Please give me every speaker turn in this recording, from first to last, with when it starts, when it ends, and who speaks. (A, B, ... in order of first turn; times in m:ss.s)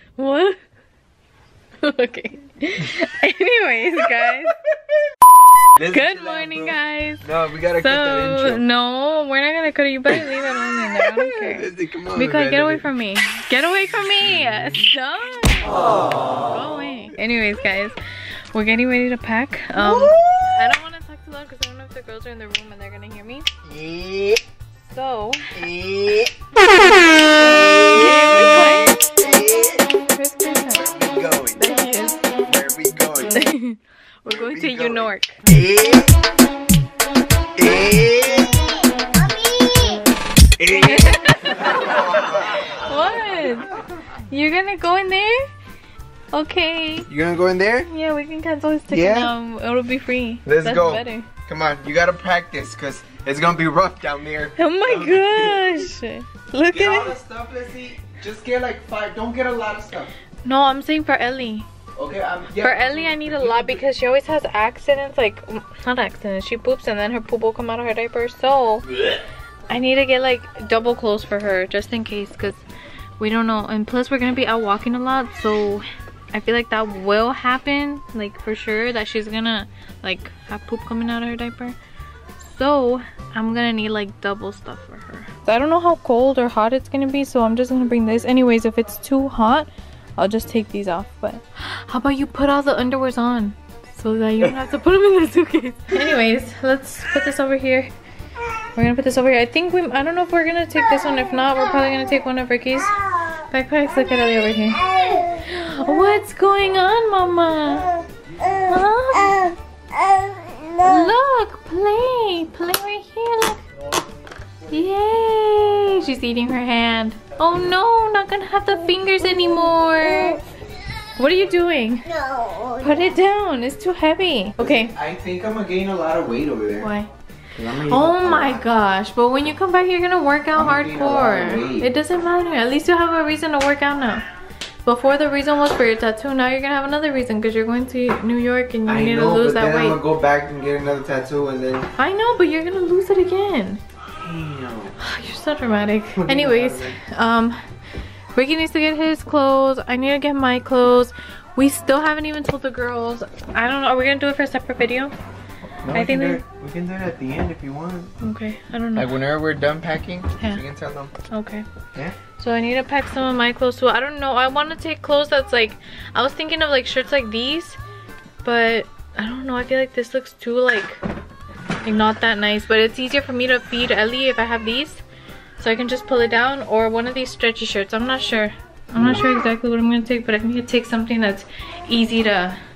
0:00.2-0:00.6 A
0:01.8-0:04.5 A
0:05.8-0:08.6 B
0:05.9-0:15.8 A
0:11.0-0:12.8 B
0:16.5-0:18.0 A
0:18.5-0:23.5 A
0:19.7-0:20.5 B
0:23.6-0:24.4 B
0:24.8-0:25.6 A
0:25.5-0:26.3 B
0:27.5-0:29.9 B
0:27.9-0:29.0 A
0:30.0-0:30.8 A
0:30.7-0:31.6 B
0:31.6-0:32.2 A
0:32.3-0:33.5 B
0:33.3-0:35.4 A
0:34.3-0:36.1 B
0:37.6-0:38.6 B
0:38.5-0:40.0 C
0:40.6-0:42.8 B
0:40.7-0:42.0 A
0:42.6-0:43.7 A
0:44.3-0:45.5 A
0:46.3-0:47.1 A
0:47.1-0:47.9 B
0:47.9-0:51.3 A
0:48.9-0:49.3 B
0:50.5-0:55.9 B
0:54.6-0:57.2 A
0:56.7-1:00.1 B
1:00.4-1:01.7 A
1:02.0-1:03.8 B
1:02.6-1:08.9 A
1:09.7-1:12.6 A
1:13.2-1:21.8 A
1:22.4-1:37.9 A
1:38.8-1:47.9 A
1:41.2-1:42.2 C
1:42.8-1:45.9 C
1:48.4-1:50.9 C
1:48.7-1:49.5 A
1:50.8-1:53.6 A
1:54.7-2:00.4 A
2:01.2-2:02.1 A
2:02.0-2:03.1 C
2:02.8-2:04.9 A
2:04.6-2:06.9 B
2:06.8-2:07.1 A
2:07.6-2:08.6 B
2:07.9-2:14.2 A
2:10.6-2:11.9 B
2:14.8-2:20.0 A
2:18.9-2:21.9 B
2:22.0-2:23.8 A
2:24.2-2:25.0 B
2:25.0-2:27.6 A
2:26.2-2:27.0 B
2:28.3-2:35.1 A
2:35.8-2:38.1 B
2:35.9-2:36.4 A
2:38.2-2:39.1 A
2:39.0-2:41.1 B
2:41.3-2:41.6 A
2:42.4-2:47.8 A
2:48.4-2:51.0 A
2:51.8-2:55.0 A
2:55.6-3:02.6 A
2:59.0-2:59.2 B